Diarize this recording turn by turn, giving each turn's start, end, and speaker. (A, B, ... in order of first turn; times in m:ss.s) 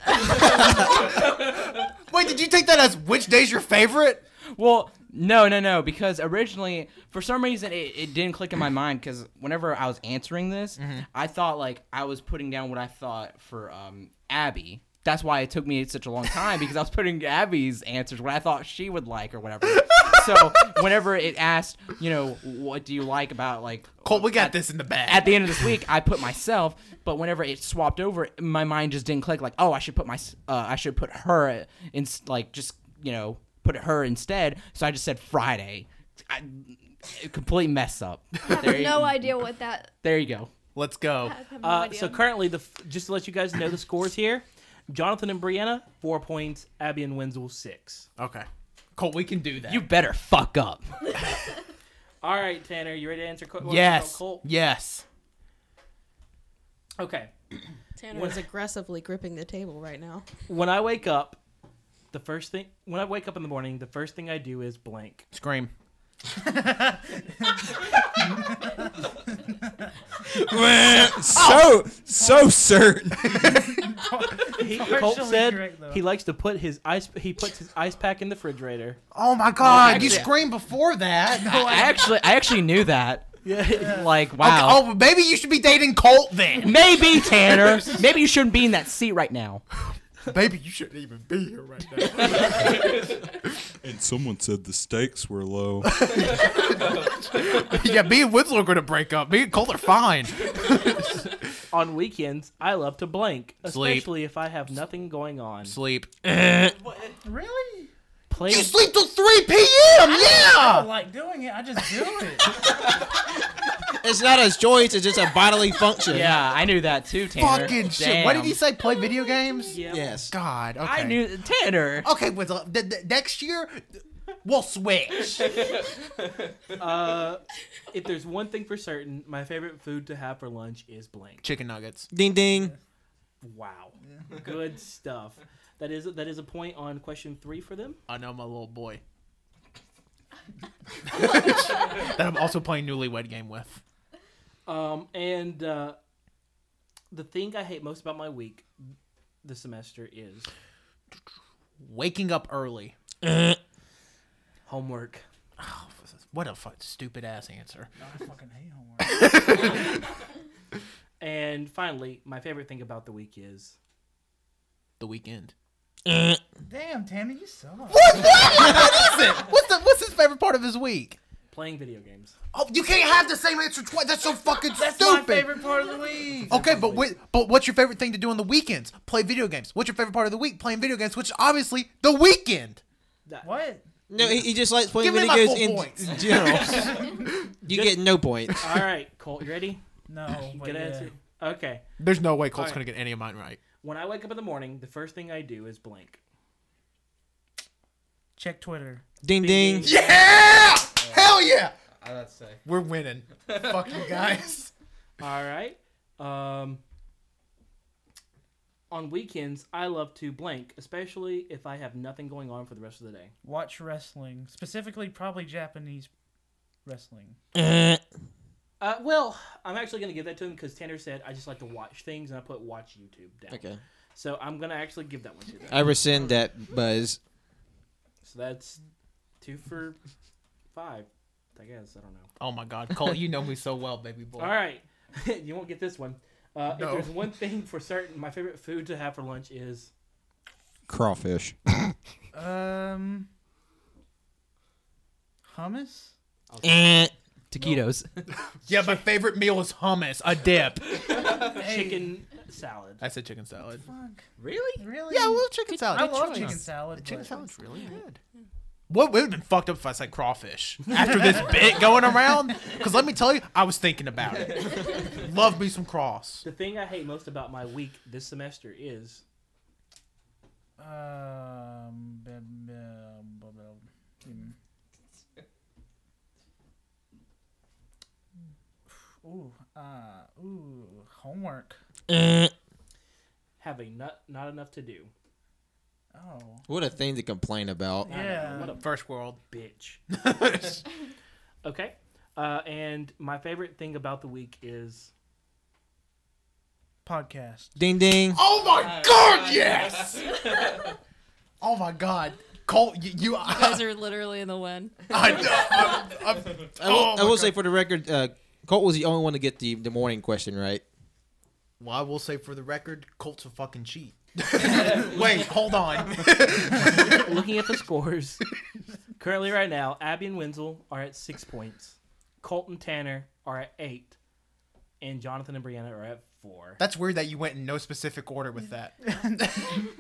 0:00.3-0:04.2 A
0:04.5-0:39.4 B
0:10.8-0:11.0 A
0:24.0-0:25.6 A
0:38.4-0:39.9 C
0:40.0-0:40.5 B
0:40.8-0:41.4 A
0:41.2-0:42.2 C
0:41.6-0:48.1 D
0:48.2-0:49.9 A
0:49.7-0:51.1 B
0:52.2-0:54.5 D
0:53.6-0:55.0 A
0:57.0-0:57.3 D
0:58.0-1:00.3 E
0:58.1-0:58.4 D
1:00.5-1:01.4 D
1:02.1-1:05.3 D
1:05.3-1:05.7 A
1:06.4-1:07.6 F
1:08.4-1:08.8 F
1:10.3-1:13.5 G
1:11.3-1:12.4 A
1:13.2-1:13.8 A
1:13.8-1:16.0 F
1:14.6-1:19.0 D
1:19.1-1:21.6 A
1:19.6-1:20.3 B
1:21.4-1:24.9 B
1:21.4-1:22.1 F
1:23.4-1:24.0 D
1:24.4-1:28.0 A
1:26.6-1:29.6 B
1:30.2-1:33.1 A
1:32.5-1:33.1 G
1:33.8-1:36.2 G
1:35.8-1:41.4 A
1:41.7-1:45.8 D
1:43.6-1:44.1 A
1:45.6-1:46.8 A
1:46.7-1:47.2 B
1:47.2-1:47.9 F
1:48.3-1:48.7 D
1:48.4-1:50.9 A
1:50.3-1:52.6 F
1:54.0-1:56.4 H
1:56.1-1:58.6 B
1:57.4-2:01.2 A
1:59.7-2:00.2 D
1:59.9-2:00.3 H
2:00.8-2:02.1 B
2:02.0-2:05.7 A
2:06.8-2:11.4 D
2:11.4-2:12.1 A
2:12.1-2:12.7 H
2:13.4-2:18.0 D
2:18.1-2:19.0 A
2:21.0-2:23.8 A
2:24.7-2:26.0 D
2:27.1-2:28.9 D
2:29.4-2:30.5 D
2:31.8-2:33.0 A
2:34.7-2:35.2 D
2:35.6-2:37.9 A
2:38.0-2:39.7 F
2:39.1-2:39.9 A
2:41.2-2:43.8 D
2:45.0-2:45.5 A
2:46.7-2:48.8 F
2:47.9-2:51.2 A
2:51.5-2:52.4 D
2:52.5-2:55.6 A
2:54.7-2:56.8 F
2:56.5-3:02.8 A
2:56.6-2:57.0 D
3:03.3-3:03.5 D
3:03.4-3:03.9 F
3:04.1-3:07.1 H
3:04.2-3:07.6 A
3:07.6-3:08.6 H
3:07.7-3:08.0 D
3:08.6-3:09.8 D
3:10.1-3:11.1 F
3:10.5-3:11.8 D
3:12.0-3:13.6 A
3:12.5-3:12.8 D
3:13.8-3:16.2 D
3:18.4-3:19.0 F
3:19.2-3:20.0 H
3:19.4-3:20.2 D
3:19.8-3:21.7 A
3:22.0-3:22.6 B
3:22.6-3:24.7 A
3:25.2-3:26.8 D
3:28.9-3:33.3 D
3:33.4-3:36.1 F
3:36.8-3:37.4 F
3:37.5-3:38.0 H
3:38.8-3:43.6 D
3:43.5-3:43.8 H
3:44.2-3:45.9 D
3:45.7-3:47.2 H
3:48.2-3:48.8 D
3:49.4-3:50.0 D
3:50.7-3:52.3 D
3:52.4-3:54.6 A
3:54.4-3:59.9 D
3:56.7-3:57.2 A
4:00.9-4:01.9 G
4:02.3-4:03.3 F
4:05.5-4:06.1 F
4:06.5-4:08.3 B
4:06.6-4:07.1 H
4:08.6-4:11.4 A
4:11.4-4:13.0 D
4:11.5-4:12.1 F
4:13.0-4:13.9 A
4:13.8-4:14.2 F
4:14.4-4:14.9 B
4:14.8-4:17.4 F
4:15.1-4:18.2 A
4:18.9-4:26.5 A
4:21.0-4:21.5 F
4:26.4-4:29.2 D
4:30.8-4:34.6 F
4:38.9-4:41.8 F
4:42.1-4:42.5 H
4:43.6-4:45.1 D
4:46.1-4:46.7 F
4:46.7-4:48.1 H
4:48.0-4:48.7 F
4:48.1-4:48.8 D
4:48.6-4:49.4 A
4:49.5-4:50.0 D
4:50.1-4:50.8 A
4:51.6-4:55.1 D
4:57.0-4:57.8 F
4:57.8-4:58.4 H
4:58.3-5:00.5 A
4:59.0-4:59.9 B
5:01.6-5:03.9 A
5:03.5-5:05.2 E
5:05.1-5:07.6 A
5:06.7-5:10.8 H
5:11.8-5:17.6 A
5:17.0-5:18.4 D
5:19.2-5:24.2 D
5:25.0-5:26.8 D
5:26.8-5:29.0 A
5:29.0-5:29.8 F